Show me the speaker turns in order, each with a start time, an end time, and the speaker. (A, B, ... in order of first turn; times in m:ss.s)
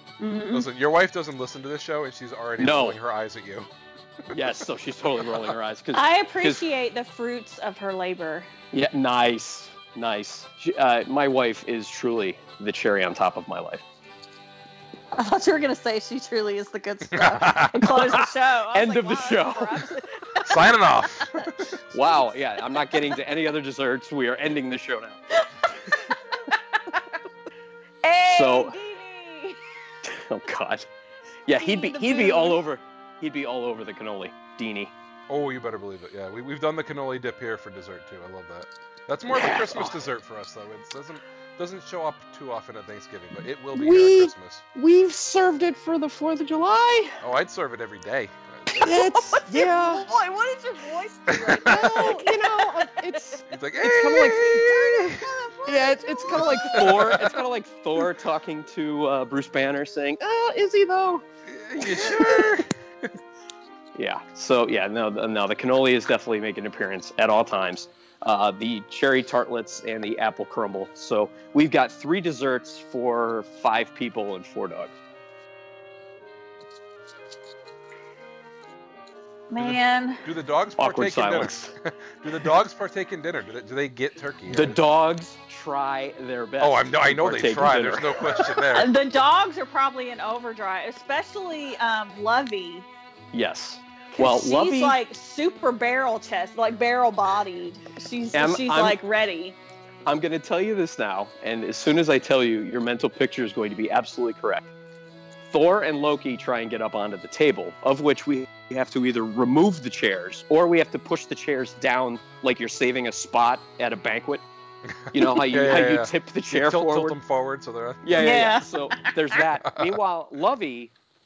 0:00.2-0:00.7 A
0:00.5-0:03.7 B
0:02.6-0:03.0 C
0:04.3-0:06.6 C
0:05.9-0:08.5 A
0:08.7-0:13.8 C
0:15.1-0:20.7 A
0:17.1-0:17.9 B
0:17.8-0:19.9 C
0:20.4-0:21.7 B
0:21.9-0:25.2 C
0:22.0-0:22.2 A
0:25.9-0:26.6 A
0:28.0-0:29.6 A
0:28.2-0:28.8 C
0:30.0-0:30.9 C
0:31.5-0:34.9 C
0:31.6-0:32.6 A
0:35.3-0:44.7 B
0:39.3-0:40.0 C
0:43.7-0:47.2 C
0:47.2-0:49.1 B
0:48.8-1:01.2 C
0:48.9-0:53.4 A
0:51.3-0:52.2 B
0:53.5-0:55.3 B
0:54.6-0:56.9 A
0:56.3-0:57.4 B
1:01.5-1:02.7 B
1:01.8-1:02.6 C
1:04.0-1:15.0 C
1:19.5-1:20.2 A
1:19.6-1:24.8 B
1:20.8-1:21.7 C
1:24.5-1:28.4 C
1:26.6-1:28.9 B
1:28.7-1:32.9 A
1:33.3-1:35.0 C
1:34.2-1:39.6 A
1:38.3-1:39.0 C
1:40.1-1:44.7 C
1:45.5-1:54.4 C
1:55.0-1:58.2 B
1:55.1-1:57.2 C
1:58.0-2:00.9 C
1:58.2-1:59.2 A